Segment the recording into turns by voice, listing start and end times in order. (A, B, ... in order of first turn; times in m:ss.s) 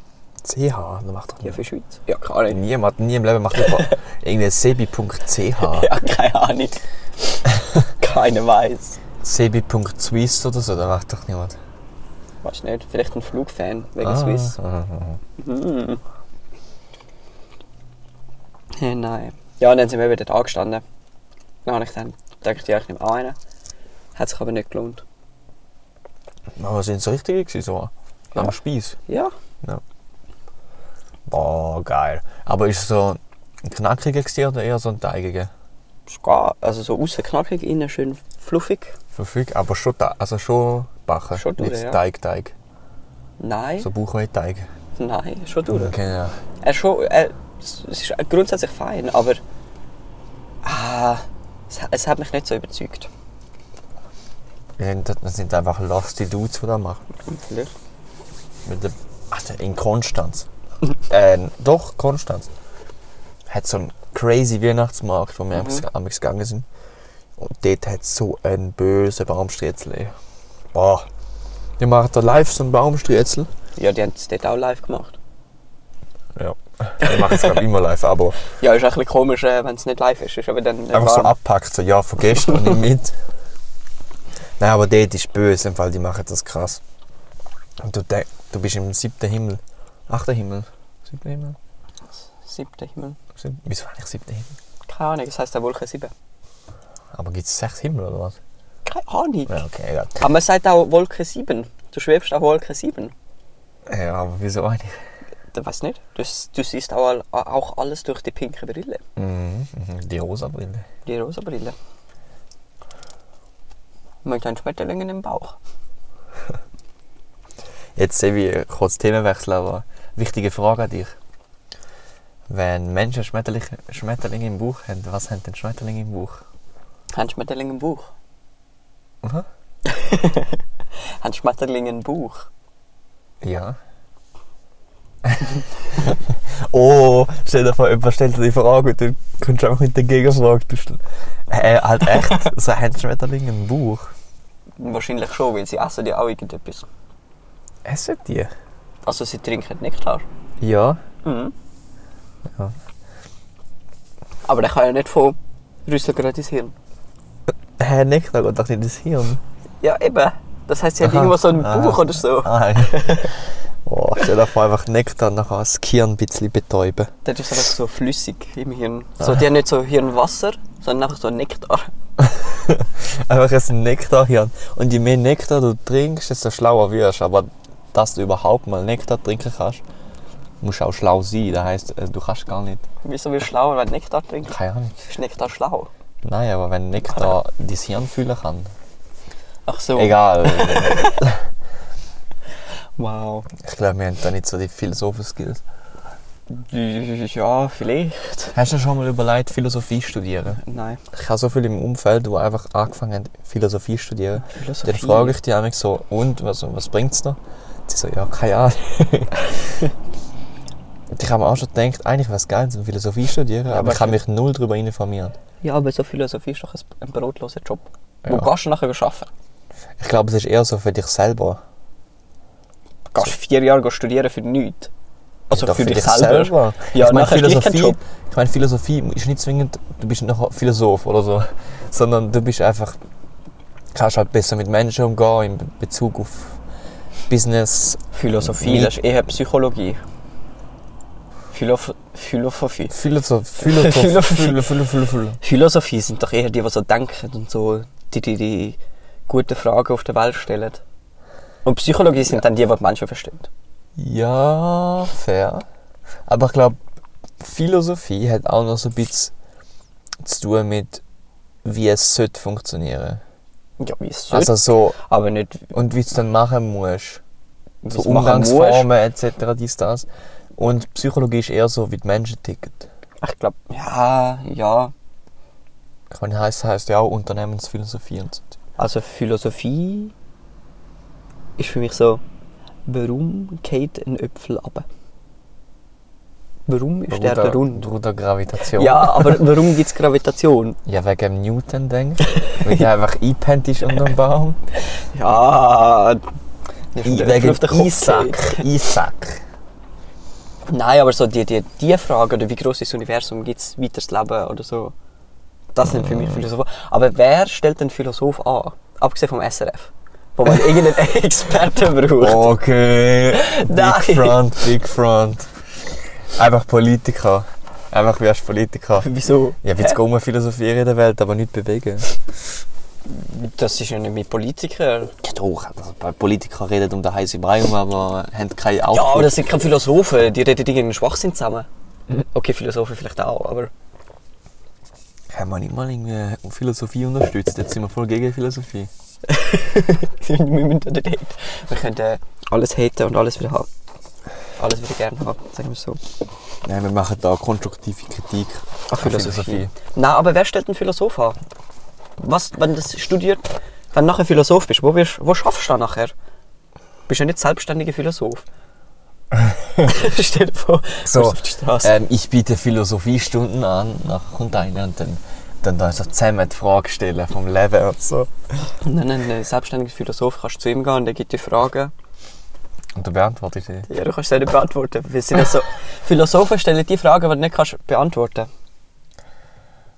0:00.4-0:01.6 A
0:01.4-0:02.6 B
0:02.5-0:05.9 A
0:03.6-0:04.0 B
0:05.6-0:07.4 B
0:08.0-0:09.0 B
0:09.2-0:11.6 A
0:12.4-0:14.6 B
0:14.0-0:15.2 A
0:15.4-0:16.0 B
0:18.8-0:20.8 B
0:21.7-0:23.4 B
0:24.2-0:25.0 B
0:26.6-0:29.0 A
0:29.1-0:29.3 B
0:31.3-0:35.5 A
0:36.1-0:39.0 B
0:39.1-0:42.5 A
0:41.4-0:42.0 B
0:43.4-0:43.9 B
0:43.8-0:44.7 A
0:45.0-0:45.9 B
0:45.7-0:46.4 A
0:46.6-0:49.4 B
0:50.6-0:53.1 B
0:54.8-0:57.0 A
0:57.3-0:57.7 B
0:58.6-1:00.5 A
1:01.1-1:02.5 A
1:03.5-1:06.7 A
1:05.6-1:05.8 B
1:07.4-1:10.2 A
1:10.7-1:11.1 A
1:11.8-1:13.5 A
1:13.8-1:15.2 B
1:16.4-1:18.4 A
1:17.0-1:17.6 B
1:18.5-1:21.3 B
1:20.9-1:23.2 A
1:24.6-1:26.8 A
1:27.8-1:31.6 A
1:32.2-1:33.2 B
1:33.4-1:34.6 A
1:34.9-1:36.1 B
1:37.1-1:38.4 A
1:38.9-1:39.6 B
1:39.5-1:40.2 A
1:40.2-1:43.1 B
1:43.9-1:45.0 A
1:45.5-1:49.0 B
1:49.2-1:50.8 A
1:51.1-1:51.8 B
1:54.2-1:55.6 B
1:58.0-2:01.2 A
2:02.5-2:06.4 A
2:07.1-2:08.1 B
2:09.8-2:12.5 B
2:13.4-2:13.8 A
2:15.2-2:24.1 A
2:24.8-2:26.9 B
2:27.8-2:28.5 A
2:29.0-2:30.2 B
2:30.6-2:31.0 A
2:31.2-2:31.5 B
2:32.5-2:32.8 A
2:34.4-2:36.8 B
2:37.8-2:39.4 A
2:39.8-2:43.3 B
2:41.0-2:47.1 A
2:47.2-2:51.9 B
2:52.2-2:59.8 A
3:00.6-3:02.9 A
3:03.0-3:05.9 B
3:04.5-3:05.0 A
3:06.2-3:08.7 A
3:09.7-3:11.2 B
3:10.0-3:11.4 A
3:13.0-3:13.5 B
3:13.6-3:15.6 A
3:16.5-3:18.6 B
3:18.5-3:20.6 A
3:20.6-3:21.0 B
3:21.1-3:29.8 A
3:24.4-3:25.4 B
3:31.1-3:35.4 A
3:33.7-3:34.2 B
3:35.6-3:39.3 B
3:38.2-3:38.5 A
3:40.0-3:41.6 A
3:43.1-3:44.9 B
3:45.5-3:48.0 B
3:45.5-3:53.0 A
3:53.9-3:56.6 A
3:57.3-3:59.0 A
3:58.1-4:00.0 B
4:01.5-4:03.0 B
4:02.9-4:05.4 A
4:03.6-4:04.7 B
4:05.4-4:10.8 B
4:11.6-4:13.5 B
4:14.0-4:15.7 A
4:16.3-4:16.8 A
4:17.4-4:19.3 A
4:20.2-4:21.0 A
4:21.6-4:23.2 A
4:23.8-4:25.7 B
4:24.3-4:25.0 A
4:25.7-4:27.2 A
4:27.8-4:28.9 B
4:27.9-4:32.9 A
4:33.2-4:34.9 B
4:36.1-4:38.5 A
4:38.8-4:40.1 B
4:41.6-4:42.2 B
4:42.9-4:44.8 B
4:46.7-4:47.9 B
4:47.1-4:49.5 A
4:48.8-4:50.8 B
4:50.9-4:54.6 A
4:52.4-4:52.9 B
4:55.0-4:56.2 B
4:56.9-4:58.7 B
4:57.0-4:59.4 A
5:00.7-5:04.9 B
5:05.7-5:12.5 B
5:05.8-5:06.4 A
5:12.2-5:19.1 A
5:13.3-5:14.4 B
5:19.0-5:20.0 B
5:19.6-5:22.2 A
5:23.1-5:25.1 B
5:25.2-5:29.4 A
5:28.9-5:33.7 B
5:35.3-5:38.9 A
5:39.3-5:43.7 B
5:44.6-5:46.0 B
5:46.6-5:49.7 A
5:48.9-5:51.4 B
5:52.2-5:56.1 B
5:57.1-5:58.4 B
5:59.3-5:59.8 A
5:59.8-6:01.9 B
6:01.0-6:08.7 A
6:08.8-6:11.9 B
6:13.0-6:13.9 A
6:13.9-6:18.5 B